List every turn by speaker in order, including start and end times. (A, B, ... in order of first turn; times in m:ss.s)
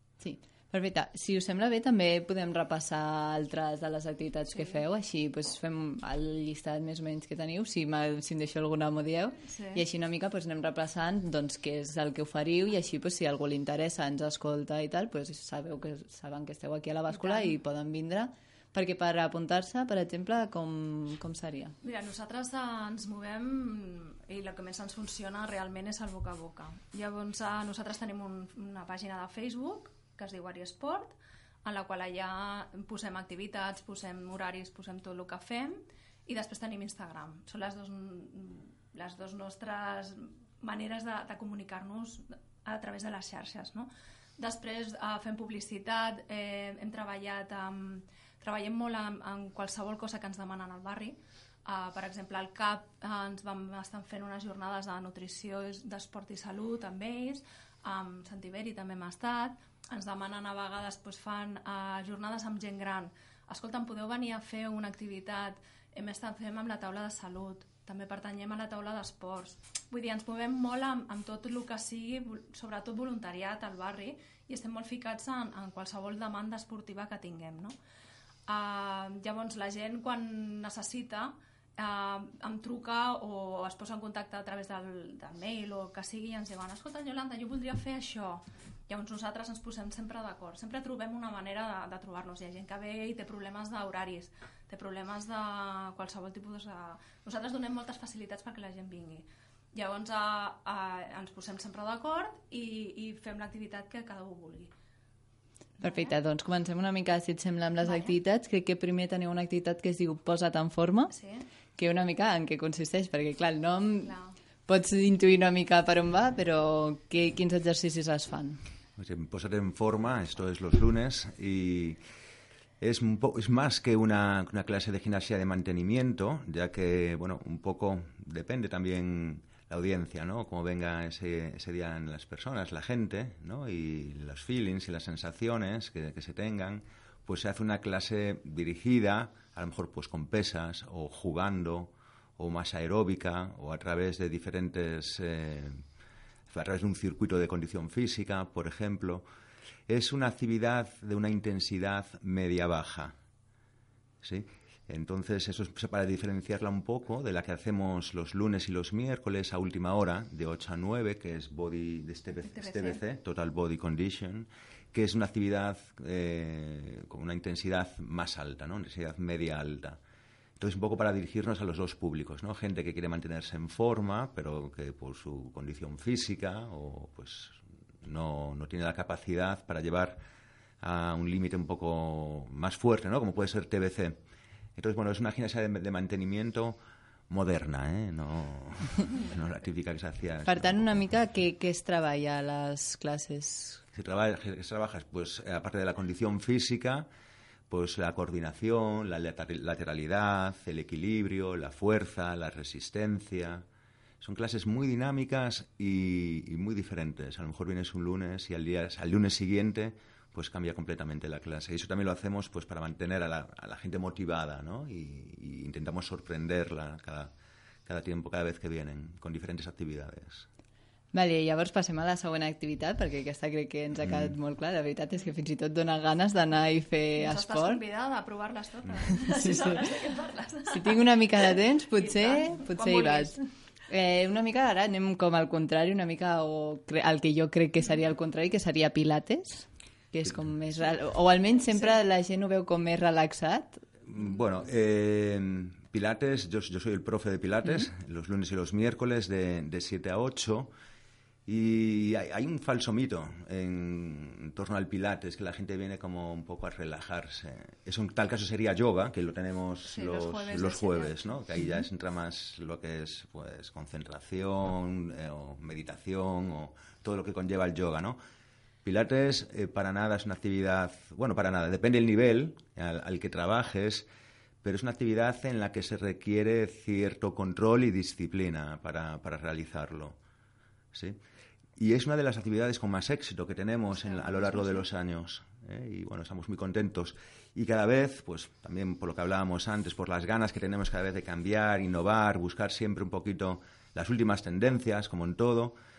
0:00.2-0:21.8 A
0:04.5-0:04.8 B
0:09.5-0:09.8 B
0:17.1-0:17.6 B
0:21.8-1:17.8 B
1:18.5-1:44.7 B
1:45.8-1:46.2 B
1:45.8-1:51.1 A
1:47.8-1:48.2 B
1:51.1-1:51.5 B
1:51.8-1:54.2 A
1:54.0-1:54.4 B
1:54.7-1:58.6 A
1:59.0-2:02.0 C
2:02.8-2:25.8 C
2:26.5-2:29.2 C
2:29.9-2:33.1 C
2:34.2-2:50.0 C
2:42.3-2:43.0 B
2:50.6-3:00.2 C
3:00.8-3:04.2 C
3:04.8-3:06.8 C
3:07.3-3:11.0 C
3:10.4-3:13.8 A
3:13.9-3:17.1 C
3:17.7-3:23.6 C
3:24.2-3:37.3 C
3:37.9-3:40.5 C
3:41.1-3:47.8 A
3:47.2-3:51.0 B
3:49.3-3:49.8 A
3:50.7-4:03.8 A
3:52.0-3:53.5 B
4:04.0-4:10.7 C
4:11.5-4:28.2 C
4:19.8-4:21.4 B
4:28.8-4:34.1 C
4:34.6-4:40.2 C
4:40.9-4:41.2 C
4:41.8-4:55.8 C
4:43.9-4:44.8 B